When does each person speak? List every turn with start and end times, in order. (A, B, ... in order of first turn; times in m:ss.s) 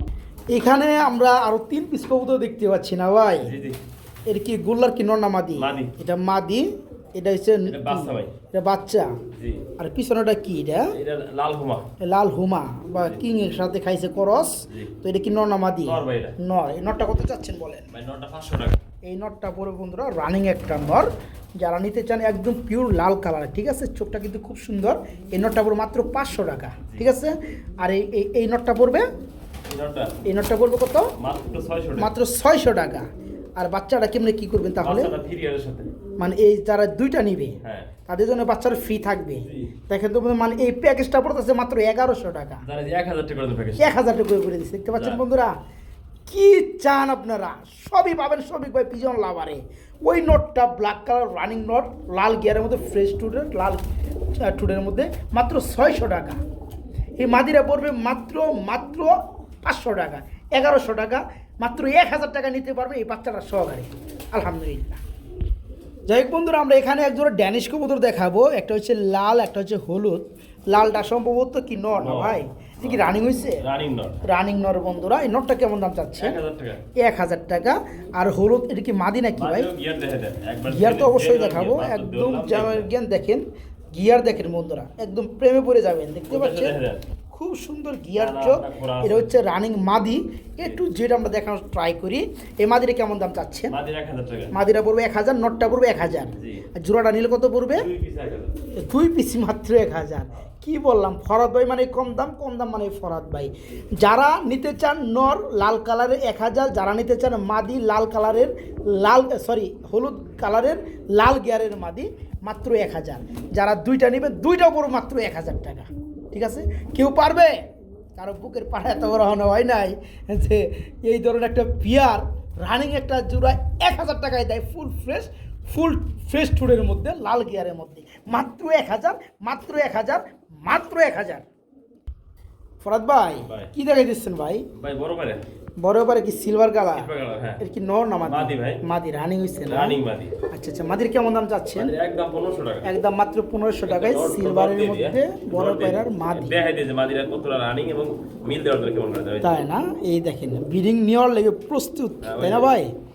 0:00.5-0:03.5 A
0:03.4-0:03.8 B
0:04.3-0:09.2 A
0:05.6-0:05.9 B
0:07.6-0:08.3 B
0:09.4-0:09.6 B
0:09.8-0:10.9 A
0:10.9-0:11.9 B
0:12.0-0:17.9 A
0:15.8-0:16.4 B
0:17.9-0:18.8 B
0:19.0-0:29.0 A
0:26.8-0:27.1 B
0:29.7-0:30.2 B
0:30.2-0:31.1 A
0:31.2-0:32.1 B
0:32.0-0:33.0 A
0:33.6-0:35.1 A
0:34.8-0:35.9 B
0:36.2-0:42.6 A
0:37.6-0:37.9 B
0:39.4-0:39.7 B
0:42.6-0:44.0 B
0:43.8-0:45.6 A
0:44.9-0:45.2 B
0:46.3-0:53.8 A
0:54.4-0:56.4 A
0:57.2-1:05.0 A
1:06.1-1:13.6 A
1:12.0-1:14.2 B
1:14.2-1:16.4 A
1:16.2-1:16.8 B
1:17.0-1:19.7 A
1:19.4-1:22.9 B
1:20.7-1:26.7 A
1:26.3-1:27.0 B
1:27.3-1:33.7 A
1:28.2-1:29.3 B
1:33.7-1:34.6 B
1:34.5-1:37.9 A
1:36.4-1:36.6 B
1:37.7-1:38.6 B
1:38.7-1:57.6 A
1:58.2-2:11.4 A
2:12.8-2:14.7 A
2:13.4-2:13.7 B
2:14.7-2:15.4 B
2:15.8-2:17.1 A
2:16.9-2:17.6 B
2:17.6-2:20.0 A
2:18.3-2:18.8 B
2:19.7-2:20.4 B
2:20.5-2:21.9 A
2:21.8-2:22.9 B
2:22.8-2:26.5 A
2:23.8-2:29.6 B
2:29.4-2:32.9 A
2:32.2-2:32.7 B